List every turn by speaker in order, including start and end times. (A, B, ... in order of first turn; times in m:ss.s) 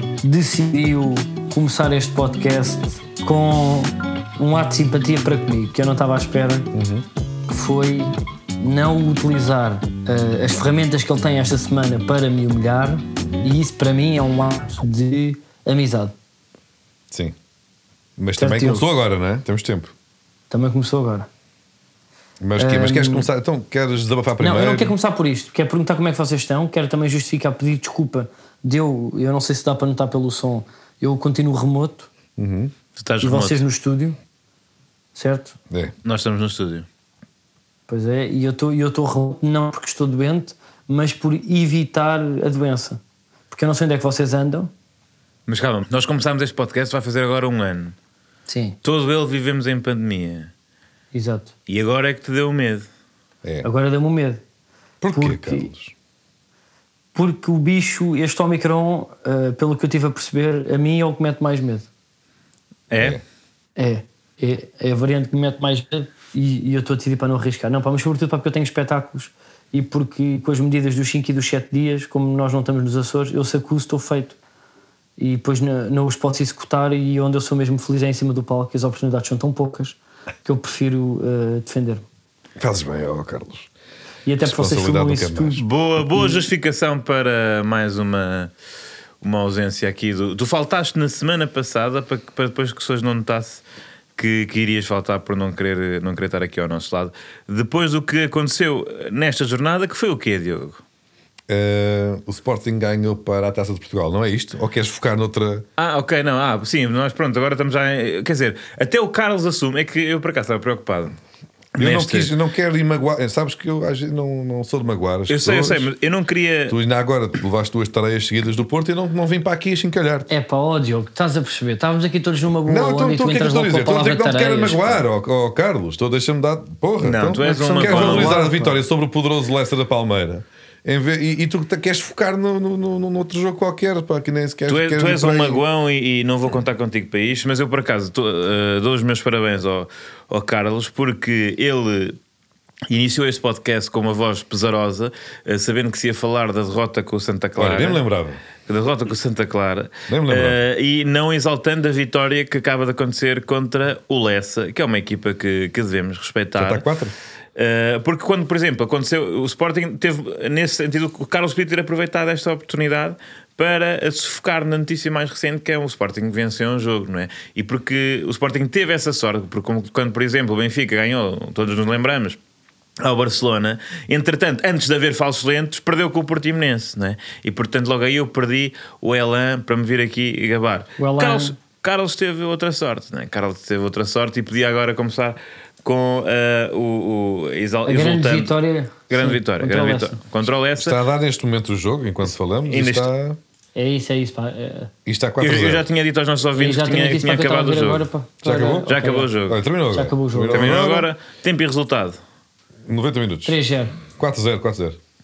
0:00.2-0:06.7 A
0:06.7-0:07.0 B
0:07.5-0:16.1 A
0:13.2-0:13.4 B
0:17.1-0:17.4 B
0:18.2-0:19.9 B
0:18.4-0:18.9 A
0:20.5-0:21.3 A
0:22.4-0:24.9 B
0:22.6-0:23.3 A
0:24.4-0:32.1 A
0:32.4-0:32.7 B
0:33.0-0:33.6 C
0:33.2-0:34.2 A
0:35.1-0:35.5 A
0:36.0-0:36.8 C
0:37.9-0:44.7 A
0:45.5-0:47.9 C
0:48.5-0:48.8 A
0:48.8-0:50.5 C
0:51.1-0:51.5 A
0:51.7-0:52.8 C
0:53.6-0:54.4 A
0:55.0-0:55.9 B
0:55.1-0:55.7 A
0:57.1-1:01.9 A
1:02.9-1:03.2 C
1:03.0-1:03.2 B
1:03.8-1:14.4 A
1:15.2-1:22.0 A
1:22.6-1:23.7 B
1:24.2-1:25.6 A
1:24.4-1:25.6 B
1:25.6-1:28.5 C
1:29.2-1:33.6 C
1:34.2-1:40.8 C
1:41.5-1:45.6 B
1:45.8-1:51.2 C
1:51.7-1:52.3 C
1:51.8-1:55.9 B
1:55.3-1:56.8 C
1:56.7-2:00.3 B
2:00.3-2:05.0 A
2:02.6-2:15.6 B
2:07.0-2:08.3 C
2:07.4-2:08.8 A
2:14.7-2:22.2 C
2:22.9-2:28.0 C
2:27.6-2:28.4 B
2:28.6-2:36.8 C
2:30.1-2:30.6 B
2:36.5-2:37.1 B
2:37.6-2:52.4 C
2:53.0-3:08.5 C
3:01.0-3:01.5 A
3:07.8-3:10.2 A
3:09.1-3:11.0 C
3:10.8-3:13.4 B
3:12.7-3:13.1 C
3:13.7-3:14.9 A
3:15.0-3:15.8 B
3:15.4-3:18.1 C
3:16.6-3:19.3 A
3:18.4-3:18.9 B
3:18.9-3:19.6 C
3:19.4-3:21.1 B
3:19.9-3:20.7 A
3:20.5-3:22.2 C
3:22.9-3:25.0 B
3:23.4-3:24.0 A